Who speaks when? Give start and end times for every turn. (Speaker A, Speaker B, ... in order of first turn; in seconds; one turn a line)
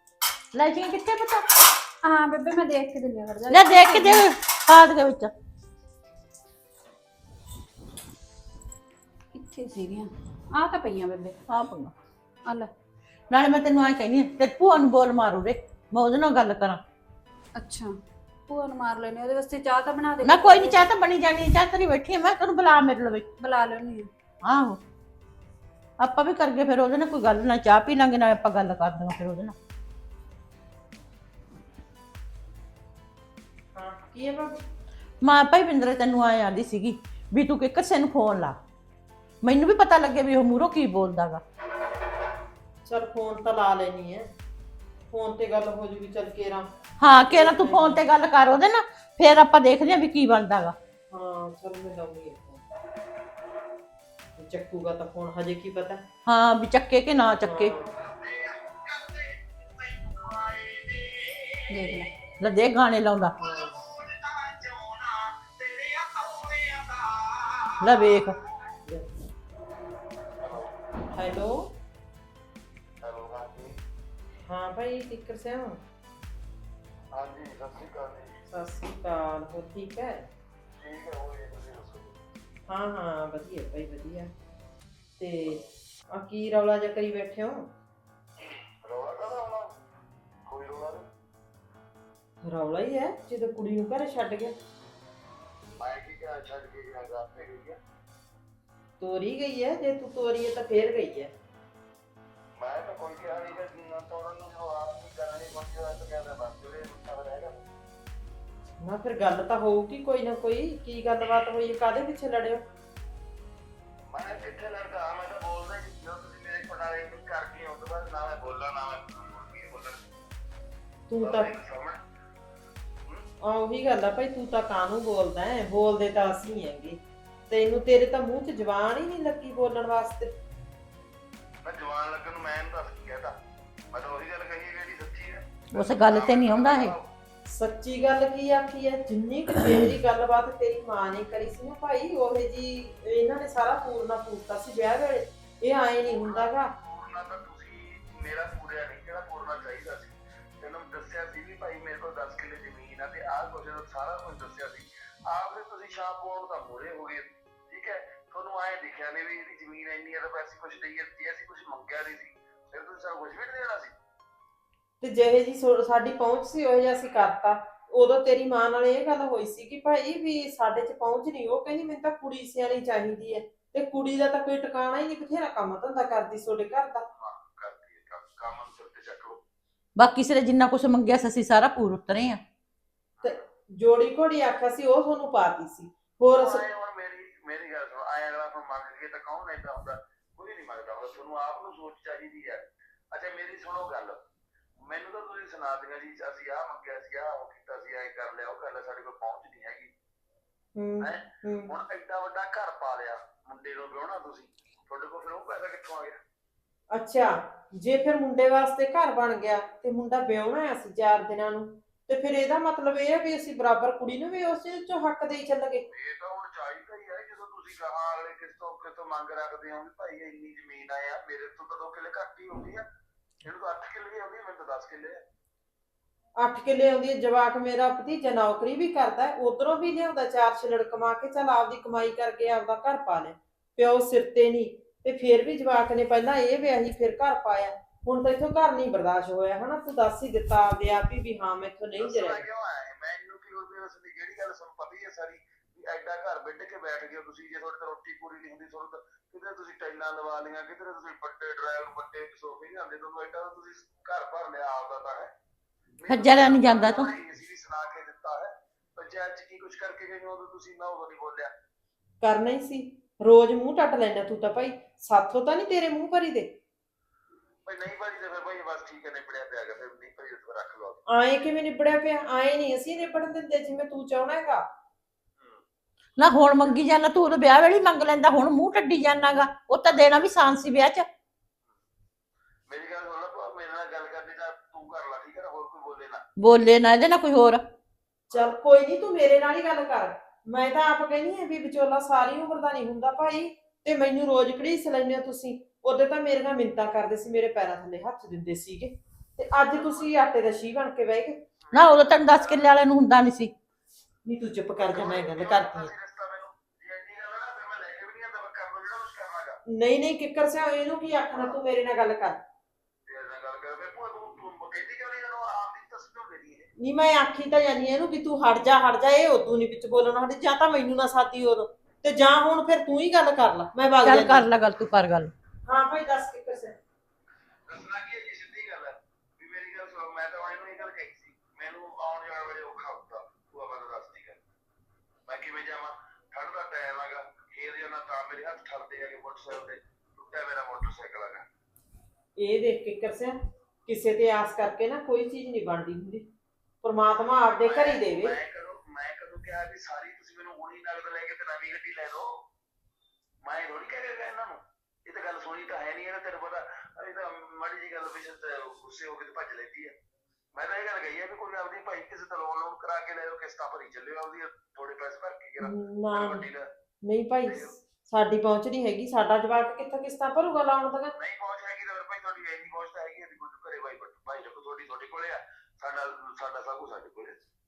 Speaker A: 0.5-1.5
Speaker B: 2.0-4.2
Speaker A: 3.5-5.3
Speaker B: 9.3-11.4
Speaker A: 11.5-11.9
Speaker B: 12.4-12.7
Speaker A: 13.3-16.8
Speaker B: 17.6-17.9
Speaker B: 18.5-20.8
Speaker A: 20.2-23.3
Speaker B: 23.4-24.1
Speaker A: 24.4-24.8
Speaker A: 26.0-29.6
Speaker C: 33.7-34.6
Speaker A: 35.2-38.6
Speaker A: 39.4-41.4
Speaker C: 42.9-44.3
Speaker C: 45.1-48.0
Speaker A: 47.0-50.8
Speaker C: 51.1-52.6
Speaker C: 54.4-56.0
Speaker A: 56.3-57.8
Speaker C: 57.4-57.9
Speaker D: 58.0-62.1
Speaker B: 61.7-62.1
Speaker A: 62.4-63.4
Speaker D: 63.4-68.2
Speaker C: 63.4-63.7
Speaker A: 67.8-68.4
Speaker D: 70.4-70.9
Speaker C: 71.1-71.7
Speaker D: 73.0-73.8
Speaker C: 74.5-75.8
Speaker D: 77.1-78.4
Speaker C: 78.5-80.3
Speaker D: 80.8-82.2
Speaker C: 82.7-84.3
Speaker C: 85.2-87.7
Speaker D: 88.8-89.8
Speaker D: 90.5-91.0
Speaker C: 92.4-94.6
Speaker D: 95.8-97.8
Speaker C: 99.0-101.3
Speaker D: 102.6-107.6
Speaker C: 108.8-112.6
Speaker D: 114.1-120.1
Speaker C: 121.1-121.5
Speaker D: 121.2-122.0
Speaker C: 123.4-130.3
Speaker D: 131.6-133.3
Speaker D: 133.9-137.1
Speaker A: 135.7-136.9
Speaker C: 137.5-146.7
Speaker D: 146.1-163.9
Speaker C: 165.0-177.1
Speaker D: 177.2-179.4
Speaker A: 180.0-182.4
Speaker C: 183.2-186.7
Speaker D: 186.3-194.2
Speaker D: 194.8-199.9
Speaker C: 200.8-201.7
Speaker D: 201.0-206.2
Speaker C: 206.9-215.8
Speaker D: 215.9-222.8
Speaker D: 223.4-225.2
Speaker C: 226.4-242.4
Speaker D: 242.0-255.3
Speaker D: 256.0-261.5
Speaker A: 256.1-257.1
Speaker C: 262.2-266.6
Speaker D: 267.6-271.0
Speaker C: 271.1-274.7
Speaker A: 276.2-281.1
Speaker D: 282.7-286.2
Speaker A: 286.4-287.6
Speaker C: 288.3-301.4
Speaker D: 299.7-300.1
Speaker D: 301.7-302.7
Speaker A: 301.7-303.5
Speaker C: 304.2-305.9
Speaker D: 304.9-309.6
Speaker C: 309.7-312.4
Speaker D: 313.1-316.7
Speaker C: 316.8-324.5
Speaker A: 324.0-325.3
Speaker C: 325.7-326.8
Speaker D: 327.7-334.4
Speaker D: 335.3-341.4
Speaker C: 342.4-346.3
Speaker C: 346.8-348.4
Speaker D: 347.6-352.4
Speaker D: 353.4-359.9
Speaker D: 360.5-366.7
Speaker C: 365.6-366.5
Speaker C: 367.0-371.1
Speaker D: 367.5-367.7
Speaker D: 371.1-377.4